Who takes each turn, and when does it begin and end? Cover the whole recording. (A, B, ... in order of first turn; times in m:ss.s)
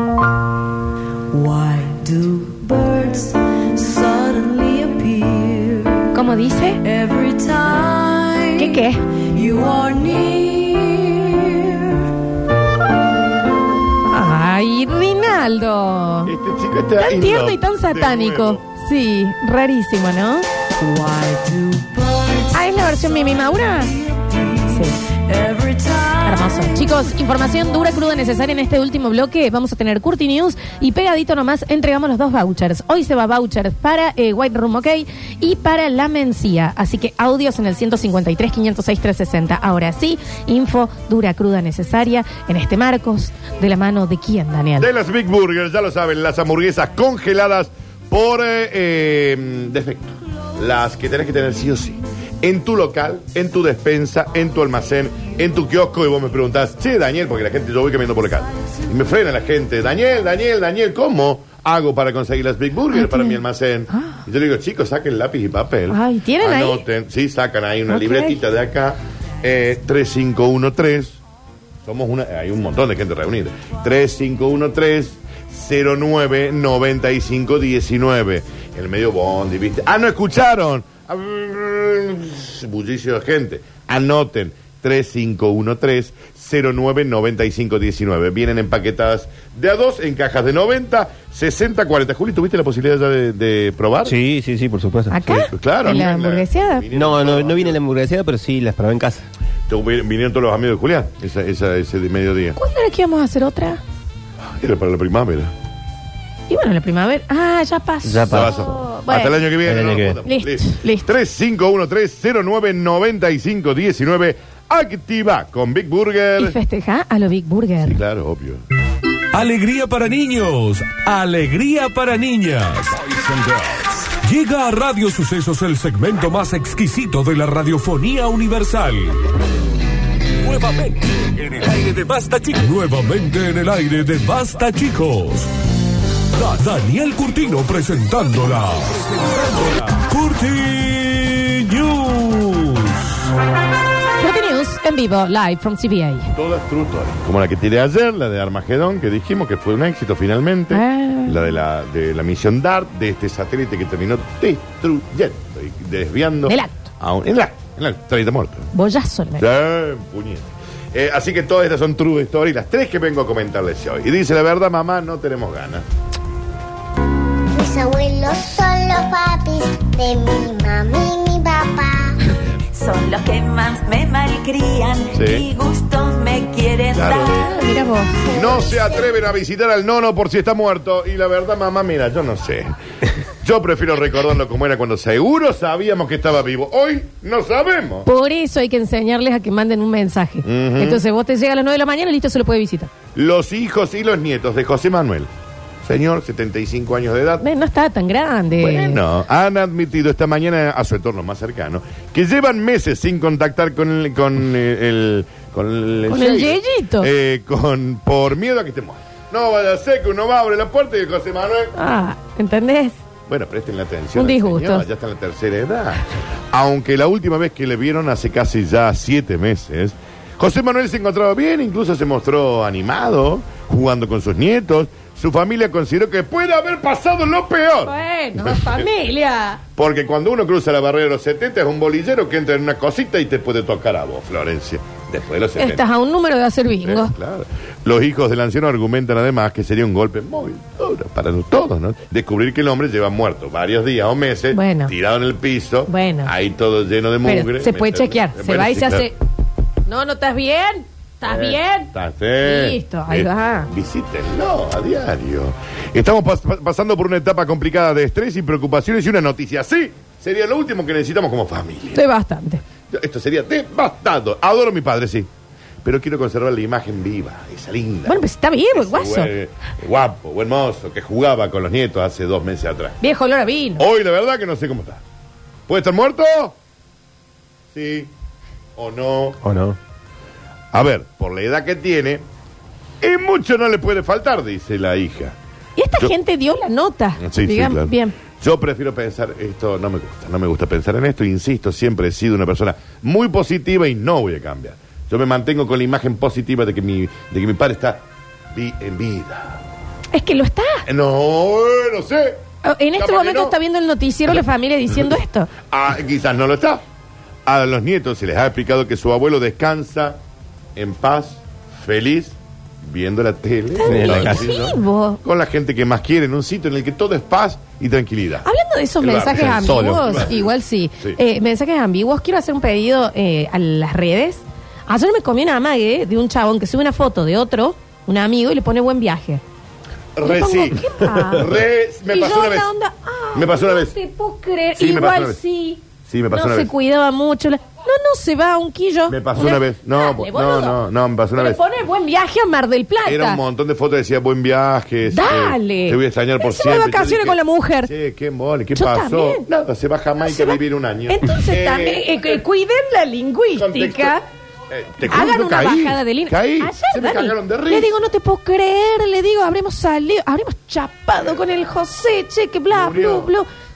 0:01.3-0:06.1 A
0:06.1-0:06.8 B
0:06.8-0:12.1 A
0:08.6-0:09.0 B
0:14.0-0:16.3 B
0:16.2-0:18.6 C
0:17.0-0:20.5 B
0:20.8-0:23.4 A
0:22.5-0:24.0 B
0:24.6-0:25.0 B
0:25.1-0:26.7 A
0:26.2-0:44.9 B
0:44.8-1:11.2 C
1:02.9-1:03.4 B
1:03.9-1:04.2 B
1:05.9-1:06.8 B
1:07.9-1:08.4 B
1:11.9-1:34.2 C
1:34.0-1:35.4 D
1:35.1-1:36.9 B
1:35.2-1:37.8 C
1:36.9-1:39.3 D
1:39.7-1:42.6 C
1:42.6-1:43.8 B
1:44.5-1:45.5 C
1:46.5-1:49.4 B
1:48.0-1:48.5 D
1:48.3-1:56.6 C
1:49.6-1:50.2 D
1:50.2-1:51.1 B
1:56.4-1:58.0 B
1:57.8-1:58.6 C
1:59.3-2:09.2 E
2:10.4-2:15.5 E
2:16.3-2:23.0 E
2:24.2-2:26.3 B
2:26.3-2:38.7 C
2:30.7-2:31.4 B
2:36.5-2:36.8 B
2:38.7-2:39.4 B
2:39.4-2:45.8 C
2:47.5-2:52.2 F
2:52.3-2:52.6 C
2:52.7-2:57.4 G
2:55.1-2:55.5 C
2:56.9-2:57.4 C
2:57.3-2:58.3 B
2:58.3-3:02.7 C
3:03.4-3:08.1 C
3:08.0-3:12.9 B
3:10.4-3:11.0 C
3:13.1-3:15.3 C
3:15.8-3:17.4 C
3:17.4-3:19.0 B
3:18.6-3:31.7 C
3:26.1-3:27.1 B
3:31.8-3:33.0 B
3:33.3-3:48.9 C
3:34.2-3:34.8 B
3:47.8-3:49.6 B
3:49.8-3:55.8 C
3:55.6-3:57.1 B
3:56.8-4:09.1 C
4:04.5-4:04.9 B
4:05.9-4:06.3 B
4:07.2-4:09.2 B
4:09.8-4:11.9 B
4:11.2-4:22.0 C
4:12.4-4:13.7 B
4:21.9-4:22.6 B
4:22.9-4:25.3 C
4:25.8-4:28.2 C
4:28.1-4:29.3 B
4:28.7-4:33.0 C
4:33.0-4:33.9 B
4:33.8-4:35.0 C
4:35.7-4:36.6 C
4:37.7-4:38.1 C
4:38.8-4:39.4 C
4:39.4-4:39.8 D
4:40.7-4:42.2 C
4:43.0-4:45.4 C
4:45.8-4:48.2 B
4:47.2-4:58.0 C
4:58.5-4:59.6 C
5:00.1-5:00.8 B
5:00.9-5:02.4 C
5:02.6-5:05.5 B
5:03.0-5:03.6 C
5:05.7-5:06.8 C
5:07.5-5:10.2 C
5:10.8-5:18.5 C
5:13.8-5:15.2 B
5:13.9-5:14.5 D
5:18.4-5:29.4 B
5:19.0-5:21.2 C
5:30.2-5:32.7 C
5:30.2-5:31.6 B
5:32.1-5:35.8 B
5:33.3-5:33.9 C
5:34.8-5:35.4 C
5:36.0-5:36.7 C
5:36.3-5:40.8 B
5:39.1-5:41.6 C
5:41.4-5:43.4 B
5:43.0-5:52.3 C
5:45.1-5:47.9 B
5:48.8-5:49.4 B
5:50.2-5:50.6 B
5:51.1-5:54.2 B
5:53.5-5:54.2 C
5:54.7-5:57.9 C
5:55.1-6:03.5 B
6:01.2-6:01.5 C
6:02.7-6:03.3 C